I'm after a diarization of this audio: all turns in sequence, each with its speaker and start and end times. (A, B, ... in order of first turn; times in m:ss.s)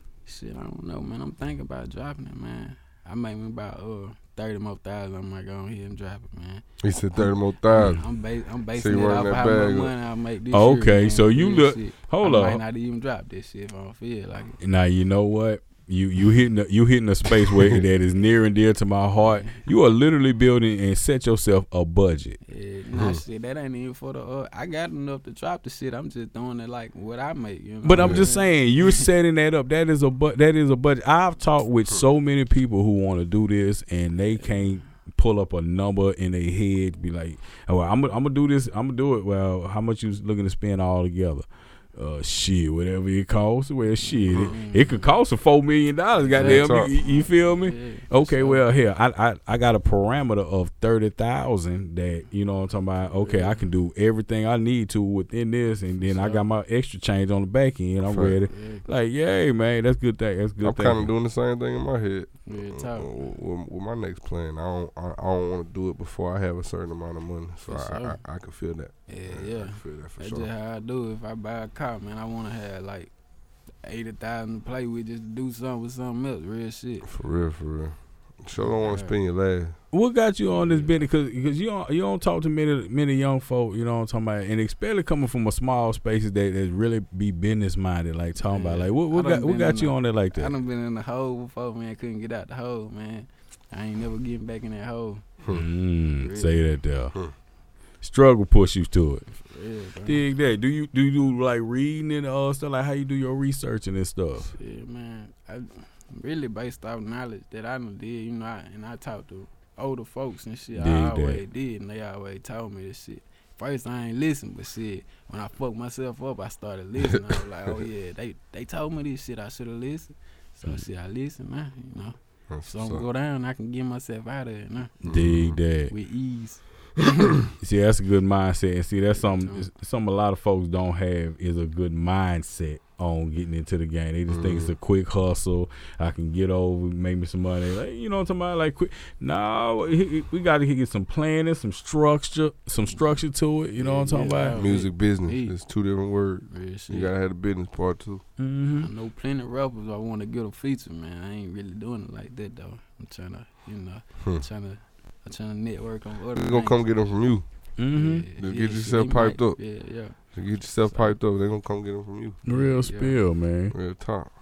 0:00.2-0:06.6 A
0:06.8-0:08.0 B
0:07.1-0:14.6 A
0:08.7-0:09.9 B
0:10.5-0:12.6 C
0:14.6-0:22.4 C
0:17.5-0:17.8 B
0:19.2-0:19.6 A
0:22.5-0:29.1 A
0:22.9-0:23.2 B
0:27.8-1:01.1 C
0:27.9-0:28.3 B
0:34.4-0:34.6 A
0:44.0-0:45.2 A
0:46.2-0:48.7 A
0:46.4-0:46.9 B
0:53.1-0:53.6 A
0:56.0-0:56.5 A
0:58.1-0:58.4 B
0:58.5-0:58.9 A
1:00.6-1:10.5 B
1:02.4-1:03.1 A
1:07.6-1:08.2 A
1:09.1-1:13.1 A
1:13.8-1:17.1 A
1:17.0-1:19.8 B
1:18.5-1:19.2 A
1:19.9-1:30.5 C
1:20.5-1:21.0 A
1:28.4-1:35.4 A
1:35.5-1:37.2 C
1:36.2-1:36.6 A
1:38.0-1:39.2 C
1:39.3-1:40.2 A
1:40.0-1:44.5 C
1:44.4-2:05.1 A
1:50.7-1:51.4 C
2:02.5-2:03.0 B
2:05.0-2:05.6 B
2:05.0-2:05.9 C
2:05.9-2:07.5 A
2:07.6-2:24.6 C
2:09.1-2:09.7 A
2:14.3-2:14.7 B
2:23.8-2:25.5 A
2:24.6-2:28.2 B
2:26.5-2:27.1 A
2:28.4-2:28.9 C
2:28.8-2:36.8 A
2:36.3-2:37.4 B
2:37.8-2:38.2 C
2:37.9-2:40.2 A
2:38.4-2:39.6 B
2:40.3-2:42.4 B
2:40.9-2:41.2 A
2:42.4-2:43.7 C
2:42.5-2:43.2 A
2:43.7-2:44.3 B